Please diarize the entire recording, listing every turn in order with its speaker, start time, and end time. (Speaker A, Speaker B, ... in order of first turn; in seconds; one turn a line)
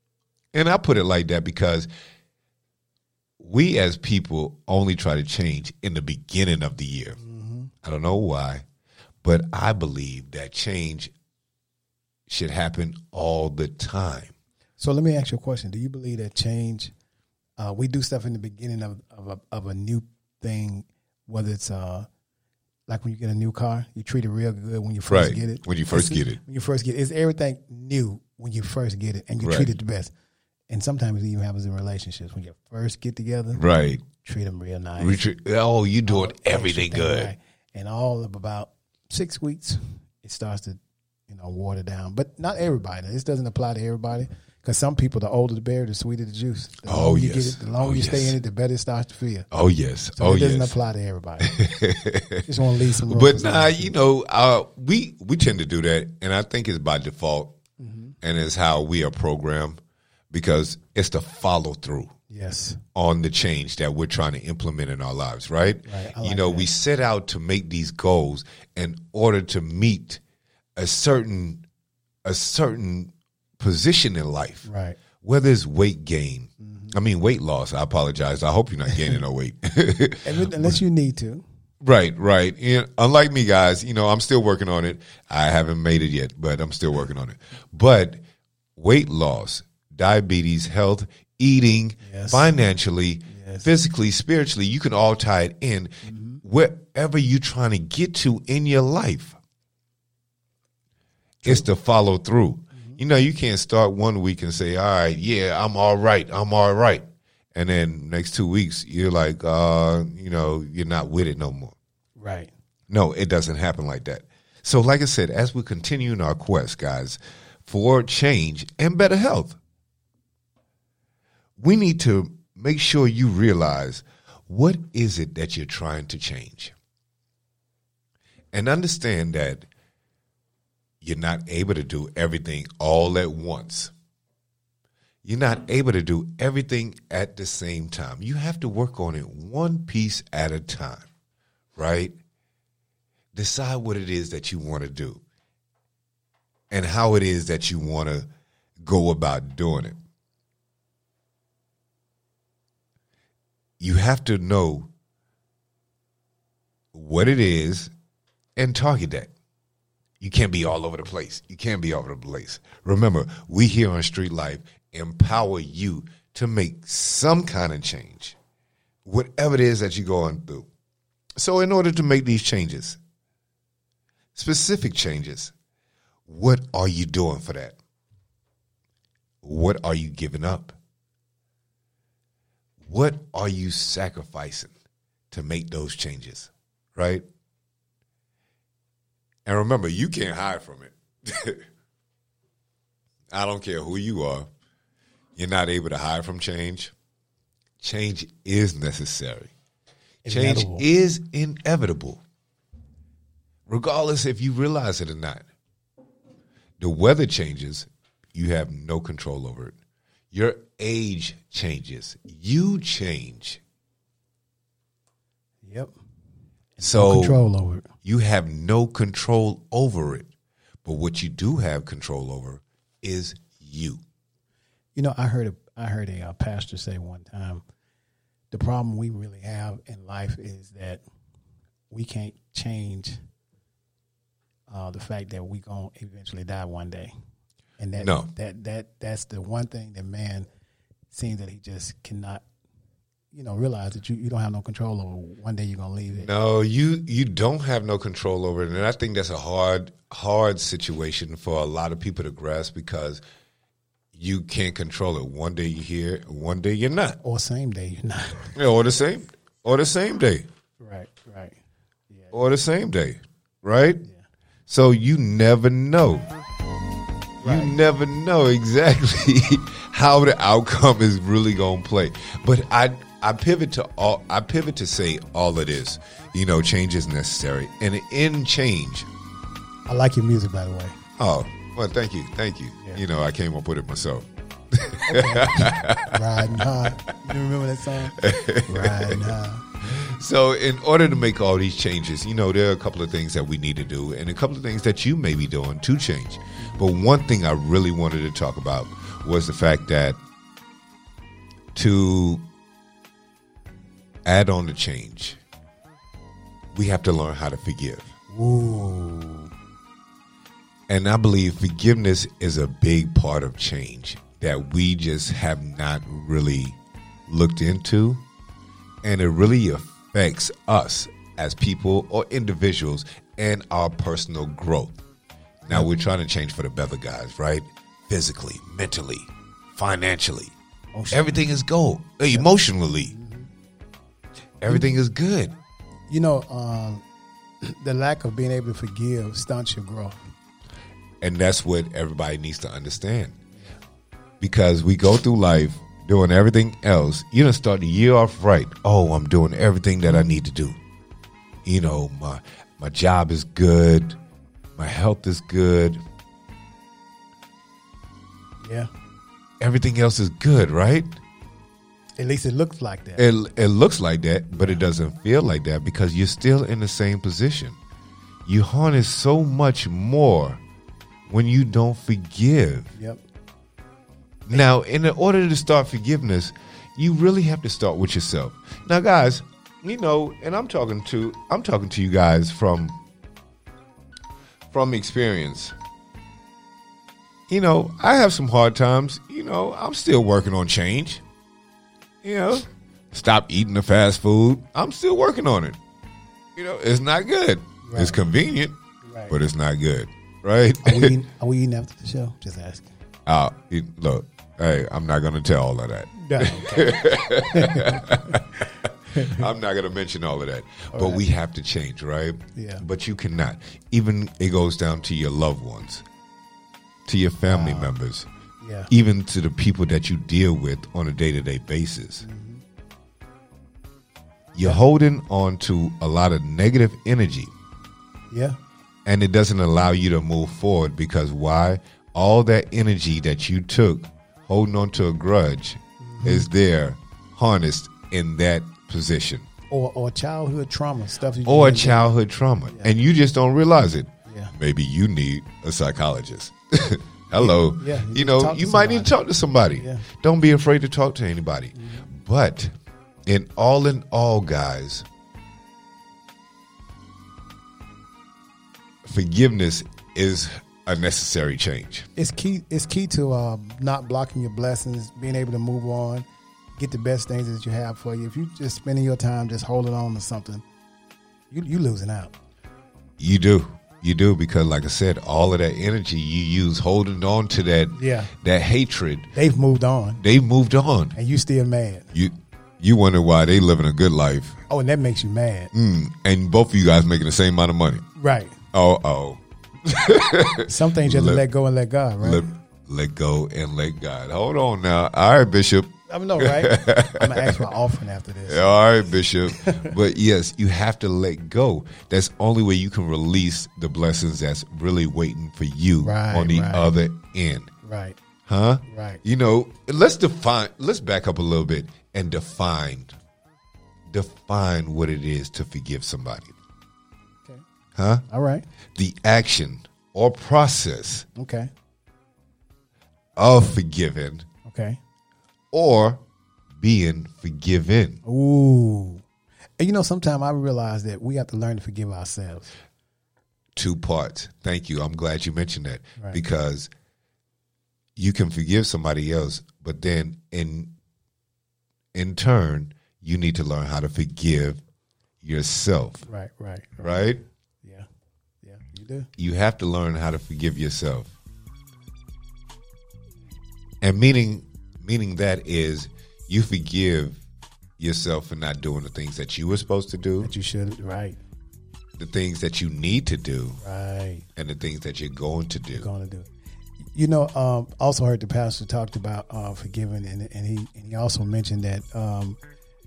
Speaker A: 0.5-1.9
Speaker A: 3.4-7.2
Speaker B: 7.2-7.7
Speaker A: 7.8-8.7
Speaker A: 9.2-11.1
Speaker A: 12.3-14.3
Speaker B: 14.8-16.9
Speaker B: 17.6-22.1
Speaker B: 22.9-30.1
Speaker A: 25.1-26.4
Speaker A: 29.4-29.7
Speaker B: 30.7-33.6
Speaker A: 33.5-34.0
Speaker B: 34.2-35.2
Speaker A: 35.0-37.3
Speaker B: 36.1-49.5
Speaker A: 46.9-48.4
Speaker A: 49.5-50.8
Speaker B: 50.2-51.5
Speaker A: 51.4-52.5
Speaker B: 52.5-53.9
Speaker A: 53.1-57.6
Speaker B: 57.8-58.1
Speaker A: 58.2-59.8
Speaker A: 60.3-62.1
Speaker B: 62.3-62.8
Speaker A: 63.0-70.2
Speaker B: 65.9-66.7
Speaker A: 70.8-71.6
Speaker A: 72.2-74.7
Speaker B: 74.7-75.0
Speaker A: 75.2-80.8
Speaker B: 76.6-77.0
Speaker B: 80.2-81.4
Speaker A: 81.8-88.2
Speaker A: 88.8-99.4
Speaker B: 92.0-92.5
Speaker B: 93.3-93.7
Speaker B: 96.1-96.4
Speaker A: 101.4-111.8
Speaker B: 102.8-103.0
Speaker B: 112.2-112.5
Speaker A: 112.9-119.6
Speaker A: 121.6-126.8
Speaker A: 128.5-129.7
Speaker A: 131.0-133.9
Speaker A: 135.2-141.1
Speaker A: 141.8-142.2
Speaker A: 143.3-145.2
Speaker A: 146.7-148.3
Speaker A: 148.8-150.0
Speaker A: 153.8-154.9
Speaker A: 156.9-157.9
Speaker A: 158.6-159.3
Speaker A: 160.2-168.4
Speaker A: 169.1-170.7
Speaker A: 171.4-173.0
Speaker A: 174.3-175.5
Speaker A: 176.3-177.8
Speaker A: 179.4-180.8
Speaker A: 182.8-184.7
Speaker A: 185.3-187.2
Speaker A: 189.5-191.6
Speaker A: 193.3-194.5
Speaker A: 195.4-196.9
Speaker A: 197.8-199.5
Speaker B: 200.2-200.8
Speaker A: 200.3-202.2
Speaker A: 203.7-205.4
Speaker A: 206.8-209.8
Speaker A: 210.3-213.6
Speaker B: 215.6-215.9
Speaker B: 216.8-217.9
Speaker A: 216.8-217.4
Speaker A: 218.0-220.3
Speaker A: 220.8-224.0
Speaker B: 225.0-227.6
Speaker B: 228.5-231.0
Speaker B: 231.9-233.2
Speaker B: 234.7-237.1
Speaker B: 237.8-240.5
Speaker A: 238.0-238.3
Speaker B: 241.1-242.4
Speaker B: 243.3-246.3
Speaker A: 246.2-253.2
Speaker A: 254.1-257.2
Speaker B: 257.2-258.6
Speaker A: 258.6-260.5
Speaker B: 260.8-261.6
Speaker B: 262.1-262.4
Speaker A: 262.3-264.0
Speaker A: 264.7-266.3
Speaker B: 267.4-267.8
Speaker A: 267.4-279.1
Speaker B: 279.9-281.0
Speaker A: 281.2-286.7
Speaker B: 285.1-289.7
Speaker A: 288.2-300.2
Speaker B: 296.6-296.9
Speaker A: 301.8-302.4
Speaker A: 304.2-305.4
Speaker A: 306.7-308.1
Speaker B: 308.3-309.5
Speaker A: 310.9-318.2
Speaker A: 319.0-325.0
Speaker A: 325.7-330.6
Speaker B: 330.9-331.5
Speaker A: 331.1-333.1
Speaker B: 333.1-333.5
Speaker A: 334.6-335.6
Speaker B: 336.1-337.0
Speaker B: 337.6-340.2
Speaker A: 341.2-343.4
Speaker A: 344.4-350.8
Speaker A: 351.6-354.2
Speaker A: 354.8-356.0
Speaker B: 358.6-358.9
Speaker A: 359.6-361.2
Speaker B: 362.2-363.2
Speaker A: 363.2-367.8
Speaker B: 364.5-364.8
Speaker A: 368.5-370.6
Speaker A: 371.3-372.9
Speaker B: 373.0-373.2
Speaker A: 374.5-383.0
Speaker A: 384.7-385.8
Speaker A: 387.5-391.2
Speaker A: 392.2-395.8
Speaker A: 396.6-398.8
Speaker B: 397.8-398.2
Speaker B: 399.0-399.4
Speaker A: 399.3-401.2
Speaker B: 400.8-402.9
Speaker A: 403.3-416.0
Speaker B: 406.1-409.4
Speaker B: 410.9-411.2
Speaker B: 412.6-412.8
Speaker A: 417.1-418.3
Speaker B: 417.5-417.9
Speaker B: 418.6-418.9
Speaker A: 418.9-422.2
Speaker B: 422.2-422.6
Speaker A: 424.5-427.5
Speaker B: 428.3-428.6
Speaker A: 429.1-439.5
Speaker B: 436.0-436.5
Speaker B: 439.7-442.1
Speaker A: 441.4-452.7
Speaker B: 442.7-442.9
Speaker B: 444.3-444.5
Speaker B: 447.4-449.1
Speaker B: 449.8-450.1
Speaker B: 451.8-452.1
Speaker A: 453.3-455.1
Speaker A: 459.0-462.1
Speaker B: 462.2-466.2
Speaker B: 466.8-470.6
Speaker B: 471.5-472.3
Speaker A: 473.2-479.3
Speaker B: 477.9-478.3
Speaker B: 479.3-480.2
Speaker A: 480.2-481.1
Speaker B: 481.1-482.1
Speaker A: 482.1-484.6
Speaker B: 484.7-485.7
Speaker A: 485.7-488.0
Speaker B: 488.2-488.6
Speaker A: 488.7-491.4
Speaker B: 490.6-492.5
Speaker A: 492.2-497.7
Speaker B: 496.1-498.7
Speaker A: 498.5-507.7
Speaker B: 499.5-499.9
Speaker B: 506.0-506.9
Speaker B: 507.8-508.2
Speaker A: 508.5-513.1
Speaker B: 508.9-509.2
Speaker A: 514.1-516.5
Speaker A: 518.0-518.2
Speaker B: 518.3-518.6
Speaker A: 519.0-521.3
Speaker B: 521.4-521.7
Speaker A: 523.4-524.5
Speaker B: 524.7-525.0
Speaker A: 525.7-526.2
Speaker A: 526.8-528.2
Speaker B: 528.2-529.2
Speaker B: 529.8-532.7
Speaker A: 533.8-536.9
Speaker A: 538.2-540.9
Speaker A: 542.1-544.8
Speaker A: 545.4-546.2
Speaker B: 546.3-547.3
Speaker A: 547.0-547.4
Speaker B: 548.6-549.3
Speaker A: 549.4-551.3
Speaker A: 554.0-557.4
Speaker A: 558.0-560.5
Speaker B: 560.4-561.4
Speaker A: 562.2-563.8
Speaker B: 563.8-564.5
Speaker A: 564.6-566.1
Speaker B: 565.9-566.5
Speaker B: 567.0-572.6